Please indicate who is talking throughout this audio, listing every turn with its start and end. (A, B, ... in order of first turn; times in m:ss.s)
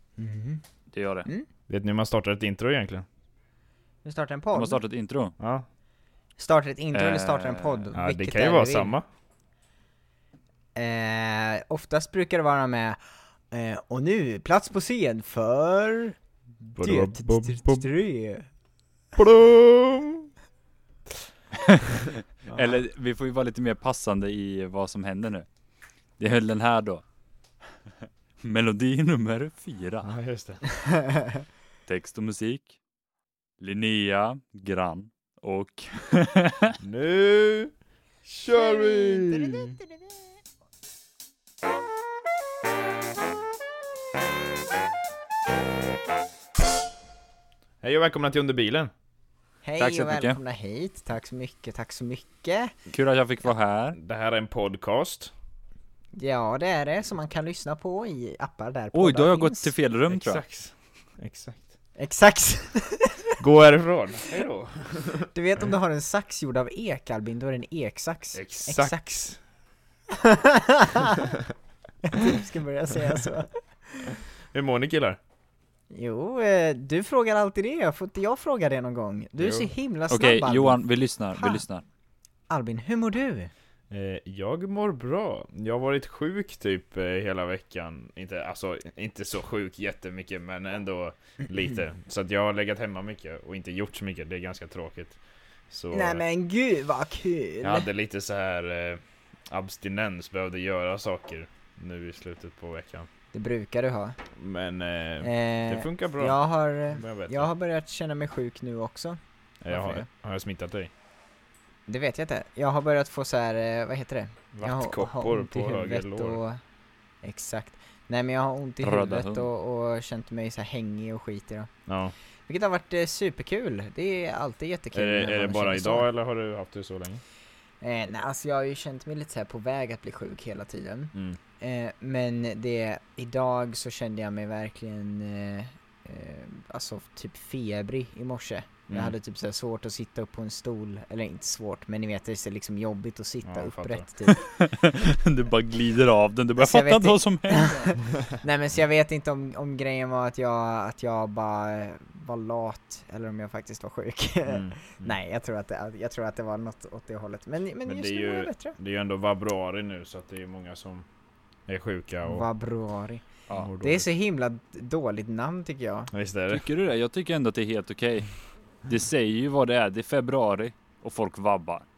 0:00.2-0:00.6 A
0:00.9-0:01.3 B
0:01.7-0:03.0 C
0:04.0-0:04.8 A
0:04.5-0:05.3 B
0:05.4-0:05.6 C
0:06.4-0:08.9 A
0:06.9-0:07.8 B
0:07.9-0:09.0 C
0:10.8-0:13.0 A
0:13.5-0:18.5 A
0:16.7-0:17.9 C
0:19.1-0:20.3 C
0:22.4-0:25.5 B
0:22.5-0:22.8 A
0:26.2-0:27.0 B
0:28.4-0:30.1 B
0:30.0-0:30.6 C
0:30.7-0:31.4 A
0:31.8-0:32.8 B
0:33.6-0:36.8 B
0:36.8-0:37.7 C
0:38.2-0:39.8 C
0:38.5-0:40.1 A
0:47.8-0:48.9 C
0:49.6-0:52.7 A
0:49.8-0:50.4 B
0:52.9-0:54.0 B
0:53.9-0:55.3 C
0:56.2-0:59.7 A
0:58.9-1:00.4 B
1:00.1-1:01.7 C
1:02.0-1:03.3 A
1:03.4-1:05.3 C
1:05.3-1:09.0 A
1:08.3-1:09.4 C
1:10.2-1:11.3 A
1:12.0-1:14.1 A
1:14.5-1:15.2 C
1:15.9-1:21.6 A
1:19.4-1:19.7 C
1:20.1-1:21.8 B
1:22.5-1:23.5 A
1:23.9-1:36.2 C
1:35.9-1:37.9 A
1:37.6-1:43.1 C
1:43.3-1:44.2 A
1:44.4-1:46.4 C
1:45.2-1:50.0 A
1:46.9-1:47.5 C
1:49.6-1:50.9 C
1:51.9-1:56.6 A
1:54.5-1:56.4 C
1:57.2-2:01.7 A
1:58.8-1:59.5 B
2:01.9-2:02.1 C
2:02.5-2:06.0 A
2:04.9-2:07.2 C
2:07.8-2:24.4 A
2:18.9-2:19.1 C
2:23.4-2:24.1 C
2:24.2-2:28.0 B
2:26.6-2:38.8 A
2:34.5-2:35.1 C
2:37.8-2:41.0 C
2:41.7-2:42.4 C
2:42.2-2:43.2 A
2:43.5-2:44.1 C
2:43.8-2:46.1 A
2:46.1-2:46.6 C
2:46.5-2:48.3 B
2:48.8-2:51.8 B